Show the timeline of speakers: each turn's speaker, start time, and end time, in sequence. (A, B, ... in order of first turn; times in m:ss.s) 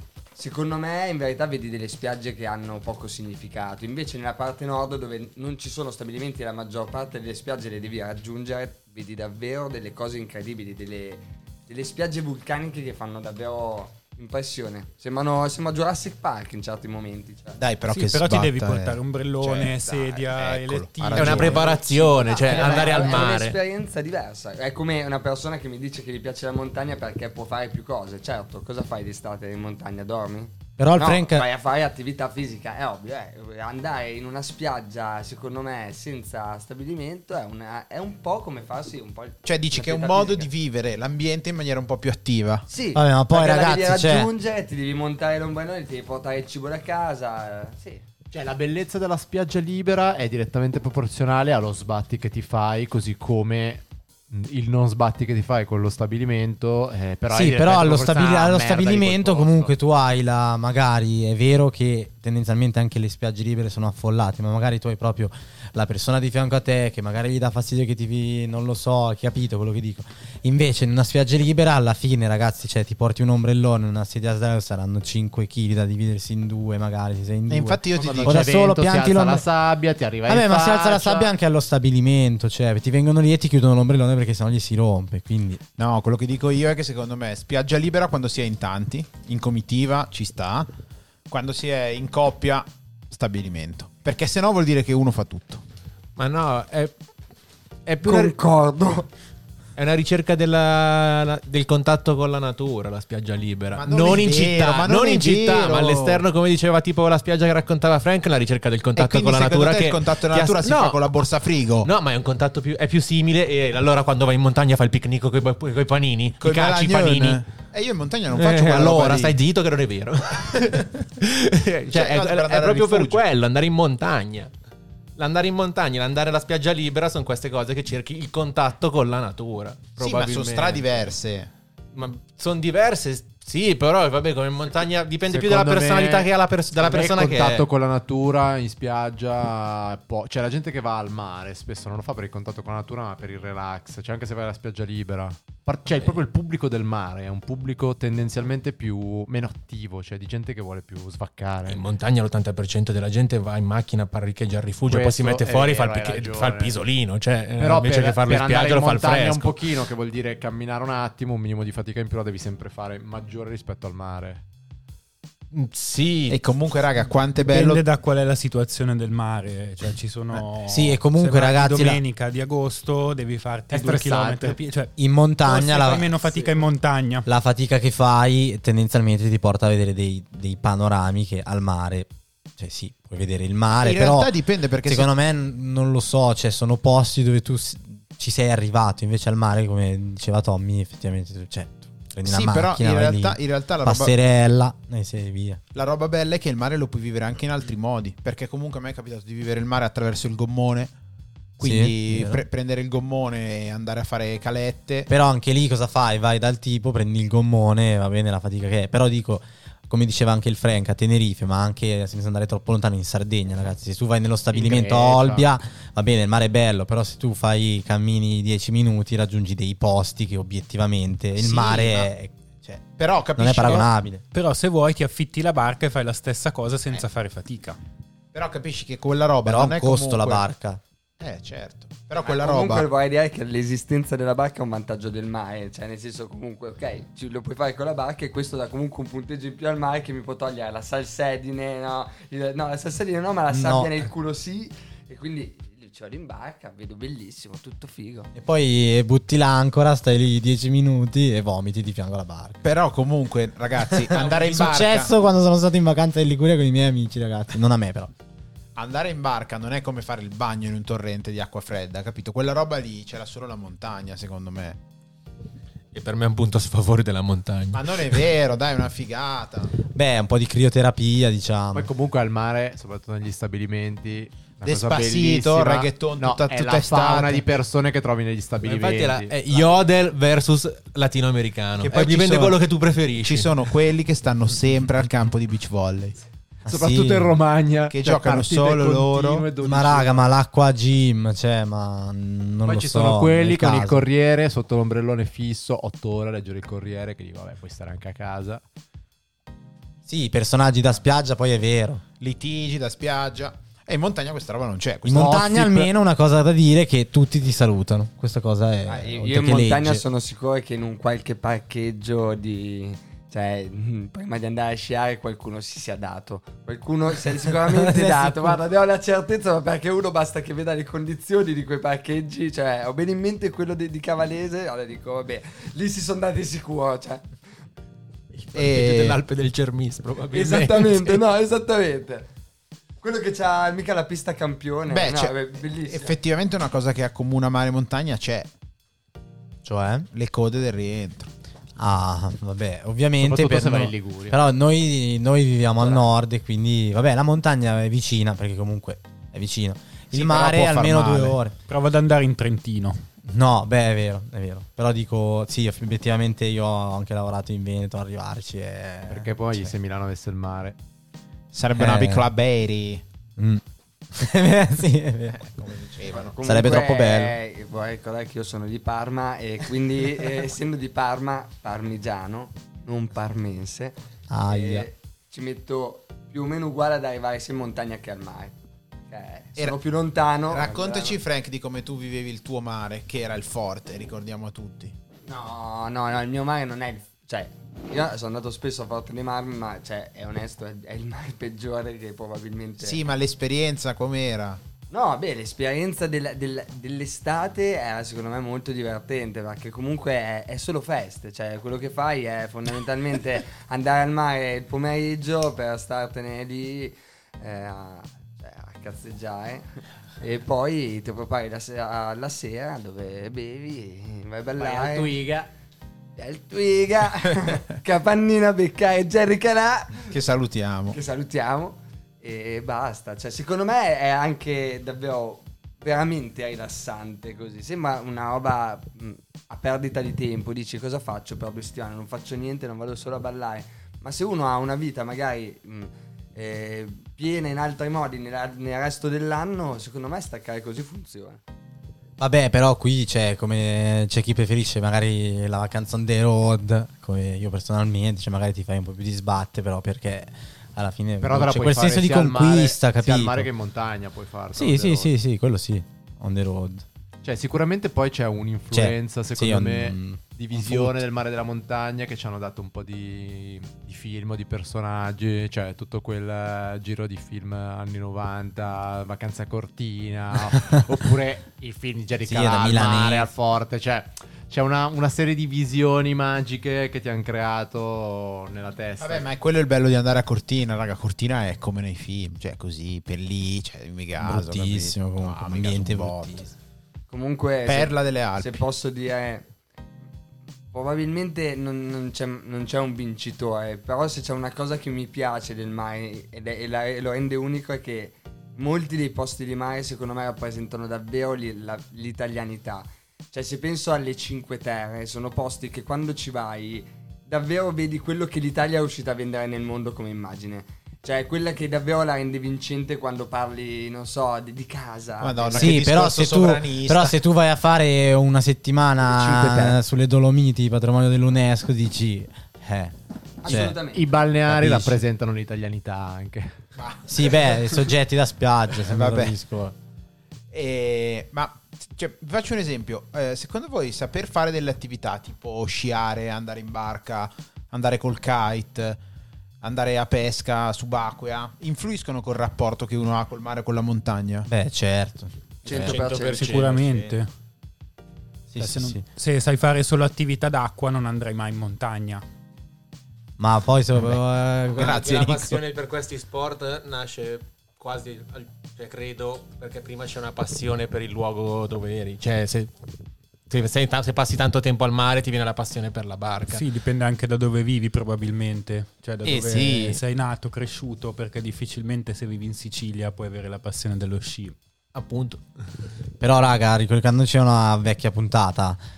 0:00.4-0:17.6 A
0:17.6-0:23.2 B
0:17.9-0:22.3 C
0:21.1-0:23.6 D
0:22.0-0:40.5 A
0:30.8-0:31.5 E
0:39.4-0:42.7 B
0:42.7-0:48.0 A
0:42.9-0:44.3 E
0:48.3-0:59.7 F
0:57.3-1:19.4 E
1:17.5-1:18.6 B
1:18.0-1:21.3 F
1:20.3-1:25.6 E
1:25.8-1:30.7 B
1:31.3-1:35.6 B
1:36.2-1:36.9 D
1:37.8-1:38.3 D
1:38.0-1:39.1 A
1:39.8-1:51.0 D
1:43.7-1:46.2 B
1:49.0-1:51.9 B
1:51.8-1:57.4 D
1:56.4-1:59.3 B
1:58.3-2:04.5 D
2:01.9-2:03.2 B
2:05.2-2:11.1 D
2:10.0-2:11.5 B
2:11.9-2:17.6 D
2:15.3-2:31.8 F
2:31.6-2:39.7 D
2:34.8-2:36.8 F
2:37.6-2:44.4 F
2:45.5-2:46.4 D
2:46.3-2:47.8 B
2:47.4-2:57.3 C
2:50.7-2:52.0 E
2:53.7-2:54.6 F
2:55.0-2:56.1 E
2:57.2-3:15.6 E
3:03.8-3:05.1 B
3:12.2-3:14.1 B
3:15.7-3:20.9 B
3:21.6-3:25.1 B
3:21.6-3:22.4 E
3:25.1-3:42.8 E
3:34.5-3:35.4 F
3:41.4-3:42.1 B
3:42.8-3:43.9 B
3:43.4-3:44.2 E
3:44.3-3:47.8 C
3:48.3-3:50.5 B
3:49.4-3:50.8 E
3:51.2-3:52.9 B
3:52.2-4:08.3 A
4:03.5-4:03.9 E
4:08.3-4:12.6 E
4:12.6-4:15.1 B
4:13.8-4:18.1 E
4:18.8-4:24.8 B
4:25.9-4:28.2 D
4:27.7-4:29.7 B
4:29.8-4:31.9 E
4:31.7-4:39.7 F
4:34.6-4:37.4 B
4:38.6-4:43.7 D
4:41.8-4:42.6 B
4:43.2-4:46.2 B
4:46.7-4:47.4 E
4:46.7-4:50.2 F
4:47.9-4:49.5 B
4:49.6-4:54.0 E
4:52.6-4:58.6 F
5:00.0-5:02.0 E
5:02.2-5:05.9 B
5:05.0-5:10.0 E
5:08.9-5:27.2 A
5:17.7-5:18.5 E
5:28.4-5:31.2 D
5:28.5-5:29.2 B
5:30.3-5:32.3 A
5:33.0-5:36.2 A
5:34.9-5:38.5 B
5:39.6-5:40.1 E
5:40.1-5:41.3 B
5:41.8-5:51.5 E
5:43.2-5:44.4 F
5:50.1-5:51.4 B
5:51.7-5:53.0 C
5:53.2-5:59.7 E
5:59.1-6:00.8 F
6:01.5-6:03.0 B
6:01.8-6:02.3 E
6:03.4-6:03.6 E
6:04.1-6:07.4 E
6:05.6-6:06.4 B
6:06.1-6:18.5 A
6:14.3-6:14.9 E
6:19.1-6:21.2 A
6:20.5-6:24.9 B
6:25.2-6:33.0 A
6:32.8-6:34.6 B
6:34.9-6:49.7 A
6:50.2-6:55.2 A
6:54.6-6:55.5 F
6:56.2-7:00.1 A
7:00.1-7:01.0 B
7:00.9-7:21.4 A
7:22.2-7:33.5 E
7:31.2-7:35.1 F
7:34.5-7:36.8 E
7:37.2-7:59.3 F
7:38.7-7:41.0 E
7:52.2-7:53.3 E
7:59.0-8:06.4 B
8:04.2-8:06.5 E
8:07.1-8:09.5 A
8:07.6-8:08.6 B
8:10.7-8:35.8 A
8:35.2-8:37.2 B
8:35.5-8:43.8 E
8:43.4-8:44.0 A
8:43.9-8:46.5 F
8:44.5-8:45.0 E
8:46.8-8:47.8 B
8:47.1-8:49.8 E
8:48.8-8:49.4 B
8:50.5-8:59.0 B
8:59.6-9:04.5 B
9:04.5-9:05.9 E
9:05.6-9:06.6 A
9:05.6-9:07.2 D
9:05.9-9:07.3 C
9:08.5-9:09.0 E
9:08.6-9:12.2 C
9:13.4-9:15.0 E
9:14.7-9:22.7 D
9:14.8-9:15.6 B
9:23.5-9:26.6 D
9:26.4-9:34.6 C
9:29.2-9:30.0 D
9:34.9-9:35.4 D
9:36.2-9:38.8 E